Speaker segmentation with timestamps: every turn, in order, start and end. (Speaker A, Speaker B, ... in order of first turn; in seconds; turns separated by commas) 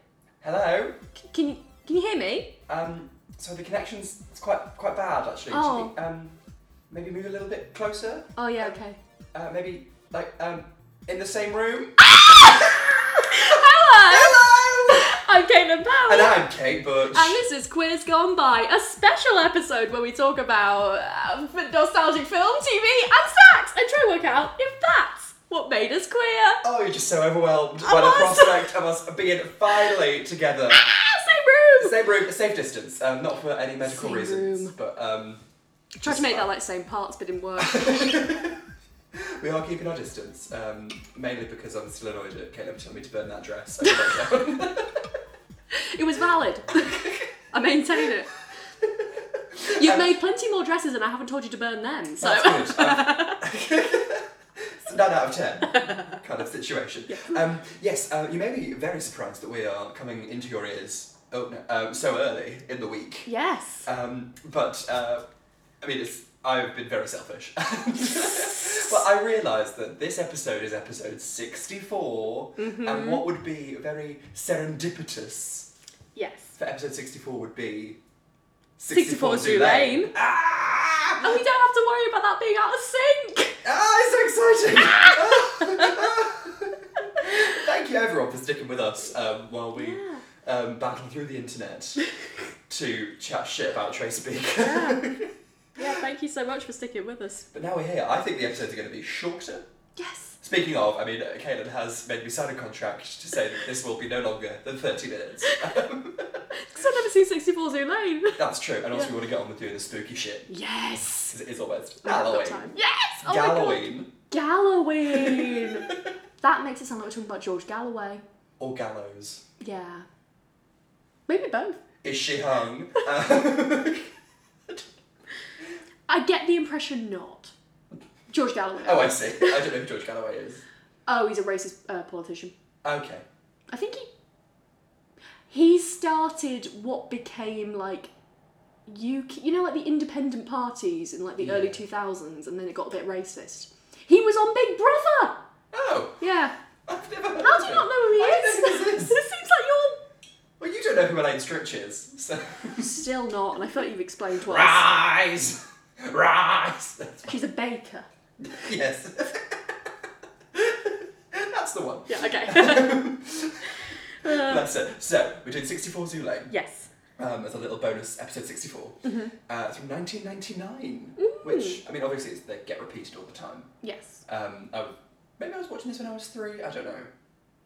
Speaker A: 0.4-0.9, Speaker B: 1.1-2.5, Speaker A: 2.7-6.3, Speaker B: 5.5-5.9, Speaker A: 6.9-8.7, Speaker B: 8.3-9.0, Speaker A: 9.3-15.1, Speaker B: 13.2-16.5, Speaker A: 16.1-17.4, Speaker B: 17.1-26.6, Speaker A: 26.6-30.9, Speaker B: 27.8-28.7, Speaker B: 29.7-30.0, Speaker B: 30.7-31.9, Speaker A: 31.8-35.4, Speaker B: 33.8-34.7, Speaker B: 36.0-38.4, Speaker A: 36.0-36.5, Speaker A: 37.6-38.6, Speaker A: 39.1-45.1, Speaker B: 43.8-44.1, Speaker B: 45.7-47.0, Speaker A: 46.7-47.3, Speaker B: 47.5-48.3, Speaker A: 48.8-50.1, Speaker B: 49.7-53.4, Speaker A: 52.2-63.3, Speaker B: 55.7-56.1, Speaker B: 57.1-57.4, Speaker B: 63.2-63.9, Speaker A: 63.9-65.2, Speaker A: 65.8-75.7, Speaker B: 72.6-73.2, Speaker B: 76.1-76.5, Speaker A: 76.6-78.0, Speaker A: 78.8-81.4, Speaker B: 78.9-80.1, Speaker B: 81.2-83.6, Speaker A: 83.6-92.1, Speaker B: 84.7-86.0, Speaker B: 89.8-90.2, Speaker A: 92.7-95.3, Speaker B: 94.6-95.2, Speaker B: 95.8-97.5, Speaker A: 97.5-99.6, Speaker B: 100.0-100.4, Speaker A: 100.4-106.5, Speaker B: 106.5-108.4, Speaker A: 108.4-110.5, Speaker B: 110.5-111.3, Speaker A: 111.3-114.1, Speaker B: 112.0-115.9, Speaker A: 115.0-116.1, Speaker B: 116.4-118.2, Speaker A: 118.6-119.4, Speaker B: 119.6-120.0, Speaker B: 121.3-121.8, Speaker A: 122.0-124.1, Speaker B: 126.1-127.5, Speaker B: 128.3-129.6, Speaker A: 128.8-130.6, Speaker B: 131.1-132.5, Speaker A: 132.8-133.2, Speaker B: 133.7-134.1, Speaker B: 135.5-138.1, Speaker B: 138.9-145.4, Speaker A: 141.4-141.8, Speaker A: 145.7-146.2, Speaker B: 146.2-146.6, Speaker A: 146.8-149.2, Speaker B: 147.4-150.0, Speaker A: 150.6-152.9, Speaker B: 152.8-154.8, Speaker A: 154.4-157.3, Speaker B: 157.2-158.1, Speaker A: 158.4-159.7, Speaker A: 160.5-166.5, Speaker B: 162.1-163.0, Speaker B: 163.8-164.6, Speaker B: 166.5-166.9, Speaker A: 167.2-173.7, Speaker B: 169.0-169.3, Speaker B: 171.2-171.8, Speaker B: 173.8-174.2, Speaker A: 174.2-177.1